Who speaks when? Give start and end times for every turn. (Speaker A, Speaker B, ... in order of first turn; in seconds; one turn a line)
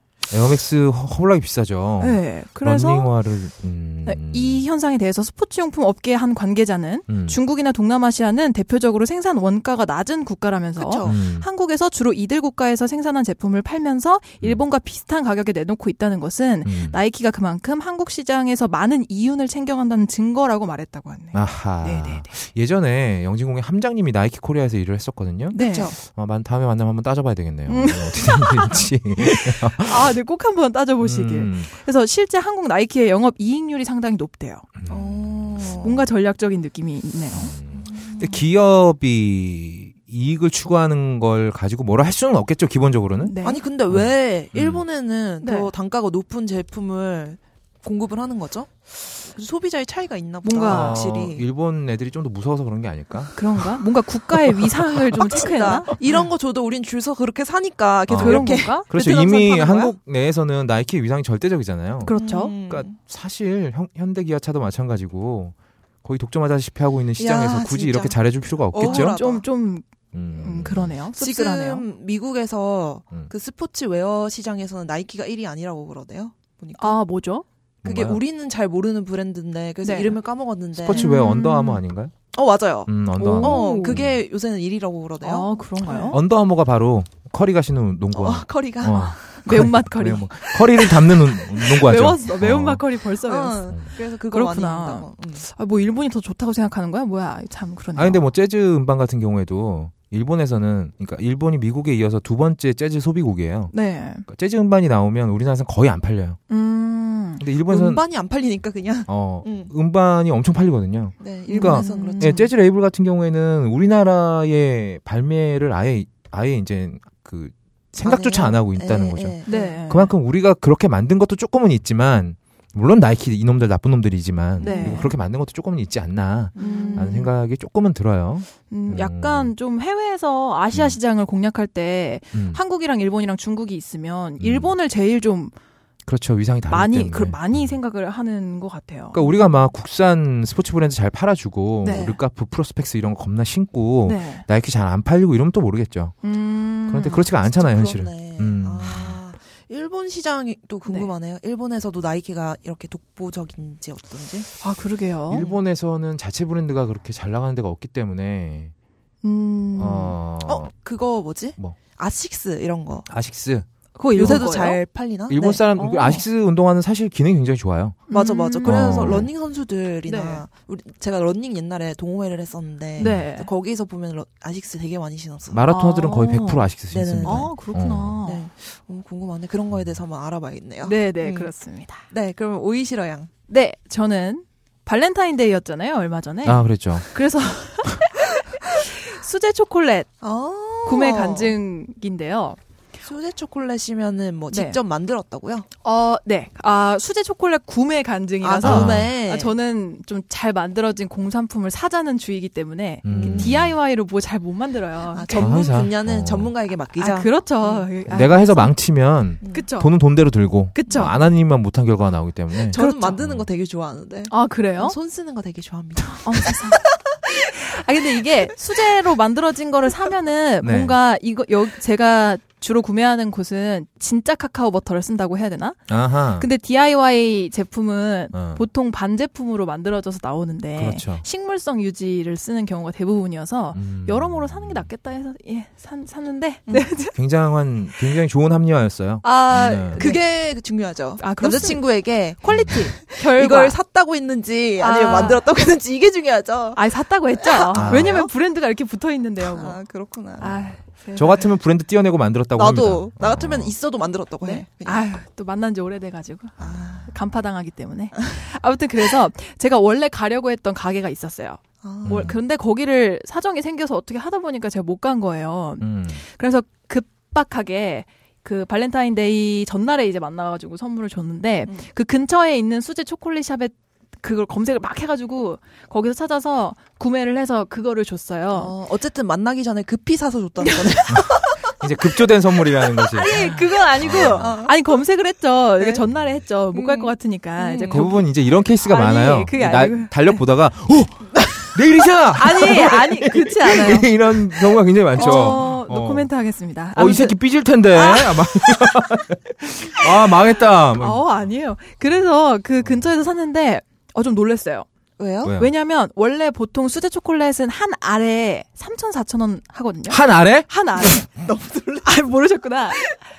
Speaker A: 0.3-4.6
Speaker B: 2.0-3.1
Speaker B: 4.0-22.3
Speaker A: 7.1-7.4
Speaker C: 10.8-11.2
Speaker A: 11.0-11.5
Speaker A: 16.6-17.0
Speaker A: 21.3-30.1
Speaker B: 25.5-25.9
Speaker C: 25.5-25.9
Speaker B: 27.7-28.8
Speaker B: 29.7-34.7
Speaker A: 31.0-31.7
Speaker A: 34.8-35.8
Speaker C: 34.9-36.0
Speaker B: 35.8-37.5
Speaker A: 37.3-43.3
Speaker C: 37.8-38.4
Speaker B: 43.2-43.6
Speaker C: 43.4-51.4
Speaker A: 43.9-44.8
Speaker B: 45.4-45.7
Speaker B: 50.4-51.0
Speaker A: 50.7-53.6
Speaker B: 53.3-55.9
Speaker C: 55.3-60.0
Speaker A: 58.1-62.1
Speaker B: 58.2-58.9
Speaker B: 62.0-62.5
Speaker C: 62.1-62.9
Speaker A: 62.7-69.2
Speaker C: 67.2-69.4
Speaker B: 68.8-69.8
Speaker A: 70.1-70.9
Speaker B: 70.4-71.8
Speaker C: 71.2-77.0
Speaker B: 76.8-77.4
Speaker A: 77.8-78.2
Speaker C: 77.8-81.0
Speaker B: 79.8-80.2
Speaker A: 80.8-82.1
Speaker B: 80.9-81.8
Speaker C: 82.3-86.2
Speaker A: 82.9-84.2
Speaker B: 83.2-84.0
Speaker B: 85.2-86.2
Speaker A: 86.1-92.8
Speaker C: 88.1-89.2
Speaker B: 88.8-98.2
Speaker C: 93.2-95.5
Speaker A: 98.0-103.7
Speaker B: 103.7-104.2
Speaker A: 104.2-106.4
Speaker B: 106.5-107.4
Speaker A: 107.4-108.0
Speaker C: 107.7-109.7
Speaker A: 109.1-129.5
Speaker C: 111.2-112.4
Speaker B: 111.5-112.5
Speaker C: 118.0-119.8
Speaker B: 119.5-120.1
Speaker C: 124.6-125.1
Speaker B: 124.6-125.1
Speaker C: 126.5-127.3
Speaker B: 126.5-127.3
Speaker B: 128.7-135.5
Speaker A: 130.7-131.0
Speaker A: 132.3-132.6
Speaker A: 134.4-134.7
Speaker A: 136.1-137.7
Speaker B: 136.7-139.3
Speaker A: 139.1-146.1
Speaker B: 141.8-142.1
Speaker C: 141.8-142.2
Speaker B: 144.0-144.4
Speaker B: 146.2-147.3
Speaker A: 146.9-149.2
Speaker C: 147.4-154.5
Speaker B: 150.8-151.1
Speaker B: 154.6-155.5
Speaker A: 155.3-158.7
Speaker B: 159.2-160.2
Speaker A: 159.8-160.7
Speaker C: 160.4-163.1
Speaker A: 163.1-164.4
Speaker B: 163.9-164.8
Speaker C: 164.1-165.6
Speaker A: 165.3-168.0
Speaker B: 165.8-166.2
Speaker B: 168.1-169.2
Speaker C: 168.1-175.6
Speaker A: 168.6-169.3
Speaker B: 170.1-170.4
Speaker A: 173.0-173.2
Speaker B: 173.0-173.5
Speaker A: 175.5-178.2
Speaker B: 175.7-176.7
Speaker C: 176.9-177.5
Speaker B: 177.2-178.4
Speaker C: 178.2-181.5
Speaker B: 180.8-182.0
Speaker C: 182.1-183.3
Speaker B: 183.5-190.1
Speaker A: 186.4-187.1
Speaker C: 190.2-191.6
Speaker B: 190.8-192.6
Speaker C: 193.0-195.7
Speaker B: 194.5-194.8
Speaker B: 195.8-205.7
Speaker C: 198.4-199.5
Speaker A: 198.6-199.1
Speaker A: 203.0-203.7
Speaker C: 203.1-203.6
Speaker C: 205.1-207.9
Speaker A: 205.4-206.5
Speaker B: 207.0-208.7
Speaker A: 208.1-213.4
Speaker C: 209.4-209.7
Speaker B: 209.5-209.9
Speaker B: 210.7-211.2
Speaker C: 212.6-216.9
Speaker B: 212.7-213.2
Speaker B: 214.3-215.0
Speaker B: 216.2-237.1
Speaker A: 220.6-220.9
Speaker A: 225.9-226.5
Speaker A: 228.3-228.6
Speaker A: 230.8-231.2
Speaker A: 233.7-234.9
Speaker A: 237.1-240.0
Speaker B: 239.2-240.2
Speaker C: 239.5-246.8
Speaker B: 241.2-243.8
Speaker A: 242.5-242.8
Speaker B: 244.8-245.5
Speaker B: 246.7-249.8
Speaker C: 247.4-248.3
Speaker A: 247.8-248.2
Speaker C: 249.4-250.7
Speaker B: 250.4-251.5
Speaker A: 251.2-253.7
Speaker C: 252.5-255.1
Speaker B: 254.4-278.7
Speaker C: 256.6-257.1
Speaker C: 261.8-262.4
Speaker A: 262.0-262.4
Speaker A: 265.8-266.2
Speaker C: 278.5-281.6
Speaker B: 280.6-281.6
Speaker A: 281.8-284.5
Speaker B: 283.0-290.4
Speaker C: 284.2-284.8
Speaker C: 285.8-286.0
Speaker C: 286.7-288.1
Speaker A: 287.9-296.3
Speaker B: 292.3-294.1
Speaker B: 295.1-297.4
Speaker A: 296.9-301.2
Speaker B: 297.9-299.0
Speaker B: 300.9-304.9
Speaker C: 305.2-305.6
Speaker A: 305.4-305.7
Speaker B: 305.6-311.3
Speaker A: 310.1-310.7
Speaker C: 311.0-312.1
Speaker B: 312.0-313.2